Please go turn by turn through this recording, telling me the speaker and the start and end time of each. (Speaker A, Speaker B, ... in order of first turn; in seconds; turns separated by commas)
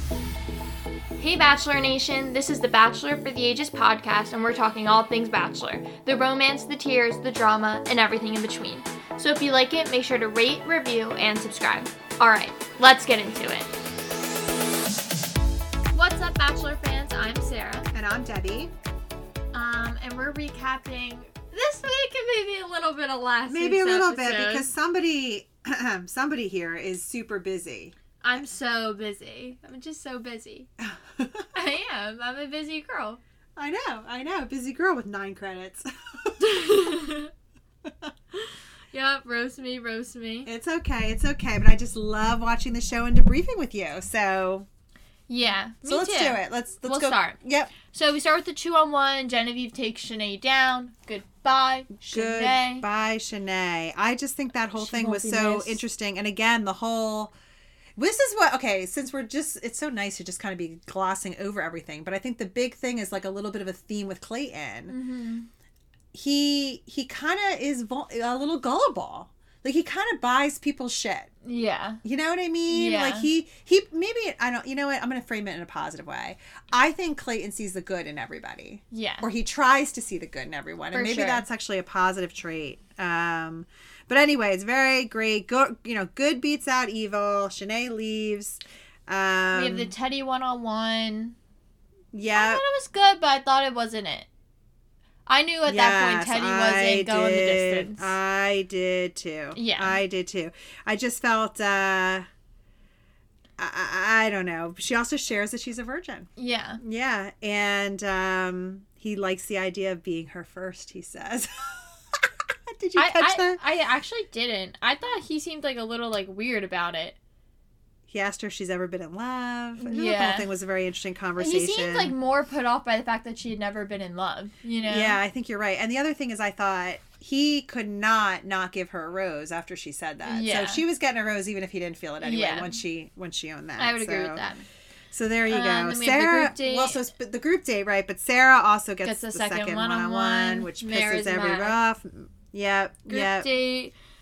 Speaker A: 1.2-13.7, Speaker A: 15.9-17.9, Speaker B: 17.9-18.7, Speaker A: 19.5-24.7, Speaker B: 23.5-27.9, Speaker A: 28.2-30.7, Speaker B: 30.8-31.5, Speaker A: 31.5-33.2, Speaker B: 33.6-36.4, Speaker A: 36.4-37.3, Speaker A: 38.4-40.5, Speaker B: 40.5-44.7, Speaker A: 45.3-47.4, Speaker B: 45.8-47.7, Speaker A: 47.9-52.9, Speaker B: 52.0-57.3, Speaker A: 54.8-55.8, Speaker B: 58.0-65.0, Speaker A: 64.9-65.5, Speaker B: 66.1-71.3, Speaker A: 71.4-72.0, Speaker B: 72.0-89.9, Speaker A: 72.7-73.3, Speaker A: 78.9-79.3, Speaker A: 80.9-81.5, Speaker A: 89.5-91.4, Speaker B: 92.1-92.6, Speaker A: 92.3-94.3, Speaker A: 95.3-98.1, Speaker B: 95.7-102.3, Speaker A: 99.5-100.0, Speaker B: 103.6-106.3, Speaker A: 106.4-106.8, Speaker B: 106.8-111.9, Speaker B: 112.7-113.6, Speaker A: 113.0-117.2, Speaker B: 118.1-122.1, Speaker A: 119.8-120.5, Speaker A: 121.4-125.2, Speaker B: 124.8-134.4, Speaker A: 130.2-130.8, Speaker A: 132.2-132.7, Speaker A: 133.8-134.6, Speaker B: 135.1-143.5, Speaker A: 135.5-137.1, Speaker A: 139.0-141.8, Speaker A: 143.1-143.9